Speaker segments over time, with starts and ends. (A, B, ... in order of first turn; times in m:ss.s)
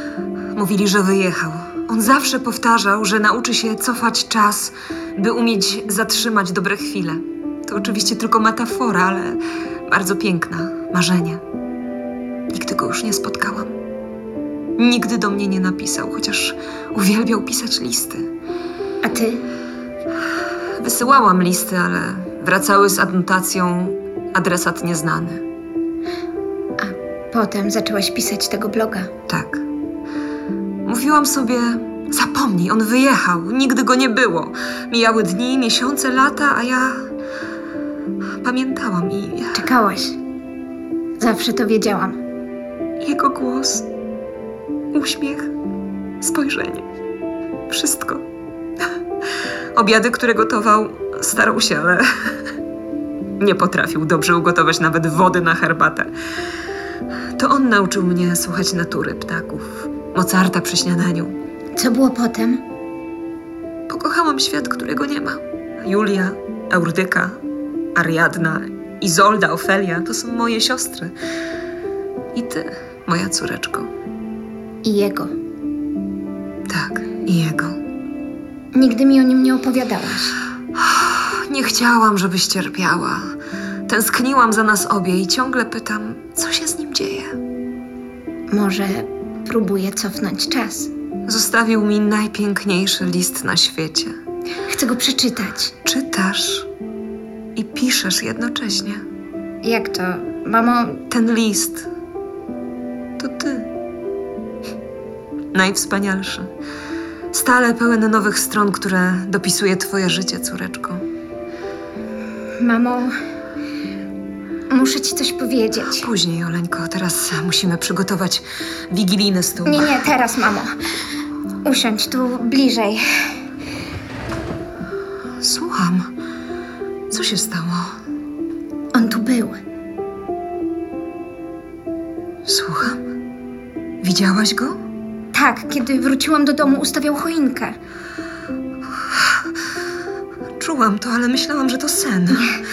0:00.5-0:11.4 A
0:12.5-0:13.8 A
0:14.8-0:18.3 A
0:19.0-0:19.4 B
0:20.8-0:25.4 A
0:26.8-0:29.1 B
0:29.3-0:29.6 A
0:30.8-0:37.1 A
0:38.4-0:39.7 A
0:39.6-0:40.2 B
0:41.2-0:42.2 B
0:43.0-0:43.9 A
0:44.9-0:45.5 A
0:46.2-0:46.9 A
0:47.7-0:48.2 A
0:49.8-0:52.1 A
0:53.4-0:56.1 A
0:57.4-1:01.4 A
1:01.8-1:02.6 B
1:03.9-1:07.4 A
1:08.0-1:11.1 A
1:12.3-1:13.9 A
1:14.8-1:15.3 B
1:16.7-1:17.8 A
1:18.7-1:20.4 B
1:20.9-1:23.3 A
1:23.9-1:27.4 A
1:28.5-1:30.9 B
1:31.3-1:34.2 A
1:34.7-1:35.7 B
1:35.8-1:36.7 A
1:37.6-1:39.0 A
1:39.6-1:41.0 B
1:41.1-1:41.9 A
1:43.2-1:43.7 A
1:45.5-1:46.5 A
1:47.3-1:51.0 A
1:52.6-1:53.2 B
1:54.7-1:56.1 B
1:56.0-1:59.9 A
1:59.6-2:00.7 B
2:01.6-2:03.0 B
2:05.4-2:06.1 A
2:07.1-2:08.0 A
2:08.9-2:09.6 B
2:12.4-2:13.0 A
2:14.0-2:14.8 A
2:15.3-2:17.8 B
2:20.6-2:22.5 A